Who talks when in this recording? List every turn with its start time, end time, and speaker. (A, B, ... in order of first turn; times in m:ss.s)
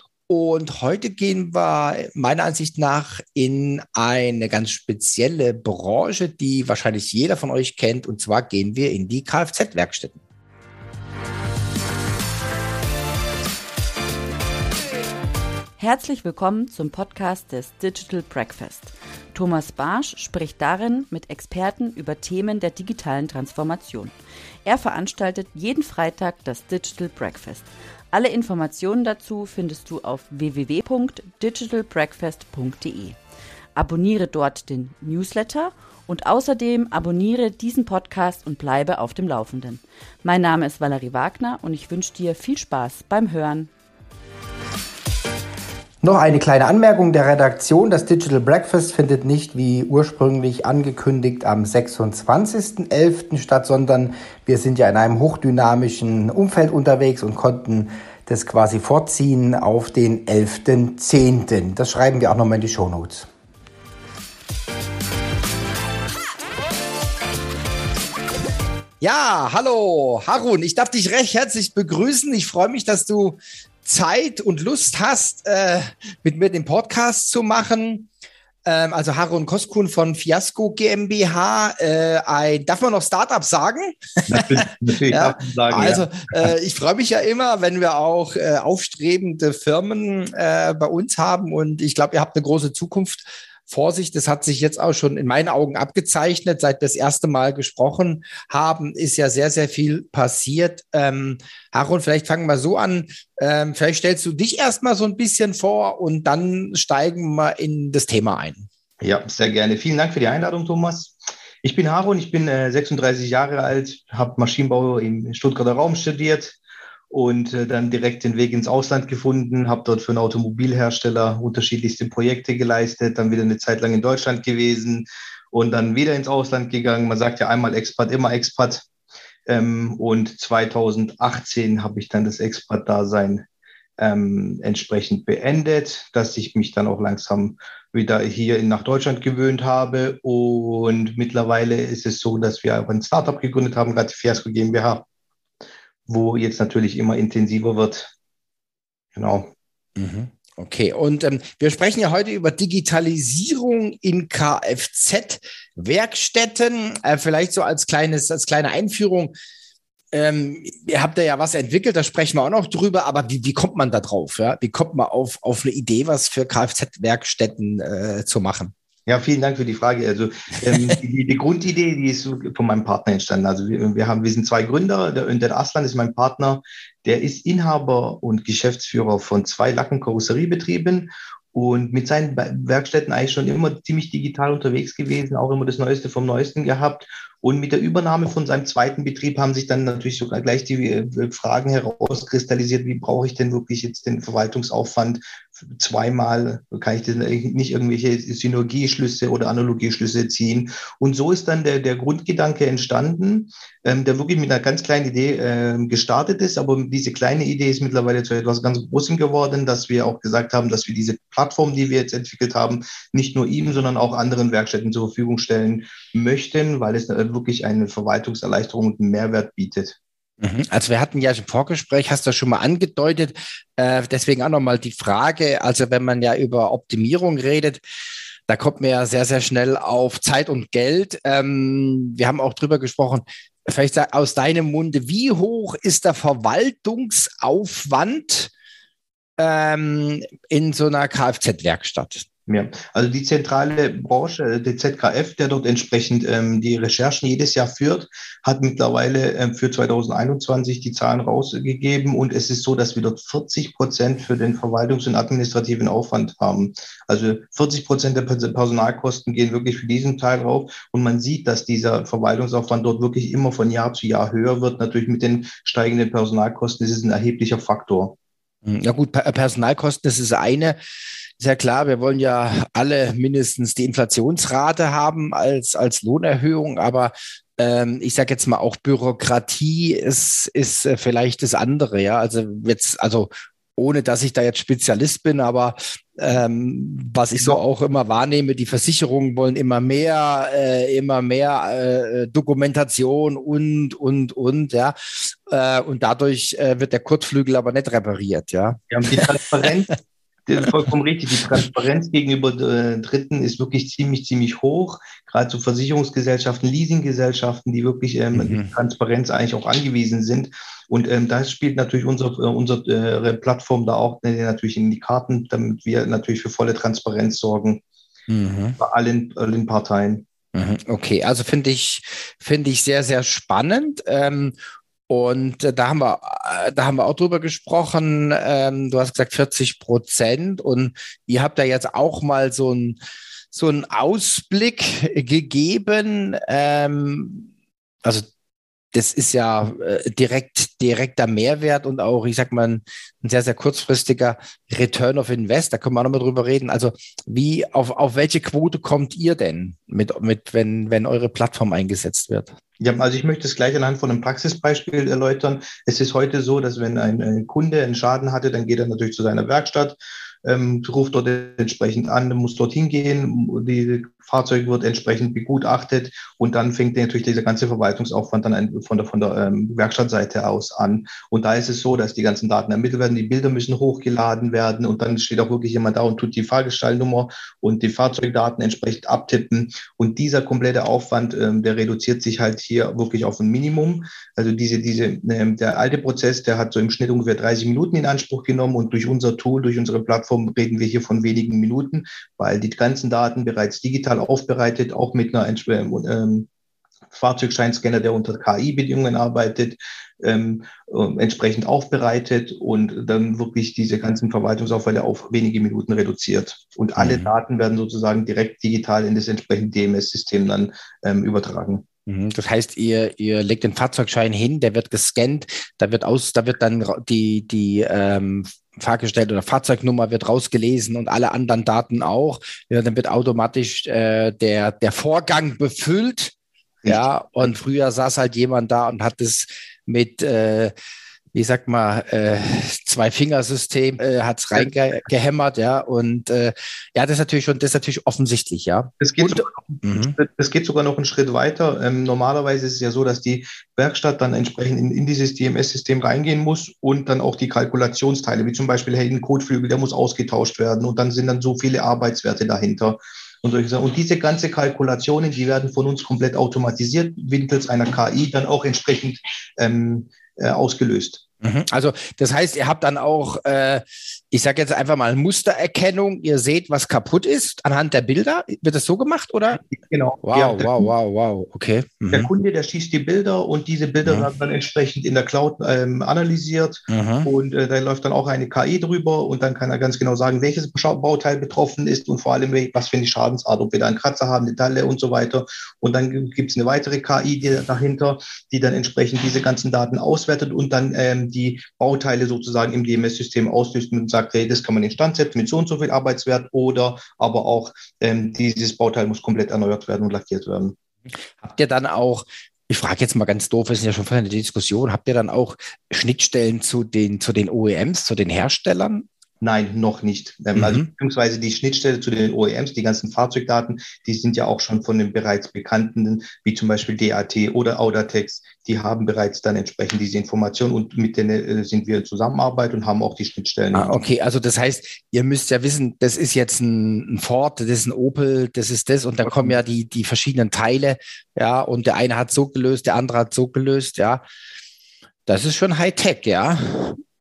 0:00.3-0:10.2 A
0:15.8-0:33.2 B
0:33.7-0:43.7 B
0:46.0-1:03.3 A
1:09.0-1:18.1 A
1:18.6-1:24.5 A
1:24.3-1:26.5 C
1:25.1-1:48.7 A
1:49.0-1:56.6 C
1:57.1-2:08.9 C
2:09.4-2:13.4 C
2:14.0-2:25.0 C
2:26.1-2:28.1 C
2:29.1-2:29.5 C
2:30.0-2:39.3 A
2:40.1-2:48.7 A
2:49.0-3:40.0 C
3:40.4-3:47.8 A
3:48.5-3:58.5 A
3:59.4-4:02.2 A
4:02.5-4:28.2 C
4:28.6-4:30.8 A
4:31.4-4:59.3 A
4:58.9-4:59.9 C
5:00.4-5:17.8 C
5:08.3-5:08.7 A
5:18.3-5:18.8 A
5:18.8-5:20.2 C
5:20.5-5:24.5 A
5:25.1-5:33.0 A
5:33.5-5:37.5 A
5:38.0-5:38.3 A
5:38.9-5:52.5 A
5:52.8-6:36.5 C
6:37.1-6:51.8 C
6:47.0-6:47.3 A
6:52.1-7:06.3 A
7:06.8-7:07.5 C
7:06.9-7:10.7 A
7:11.3-7:20.2 A
7:14.5-7:14.8 C
7:19.0-7:41.2 C
7:41.4-7:49.7 A
7:49.7-7:50.9 C
7:50.2-7:52.3 A
7:52.1-8:20.7 C
7:54.0-7:54.3 A
7:56.9-7:57.3 A
8:21.4-8:29.1 A
8:29.4-8:44.0 C
8:30.5-8:30.9 A
8:43.7-8:54.2 A
8:49.2-8:49.6 C
8:55.2-8:57.0 A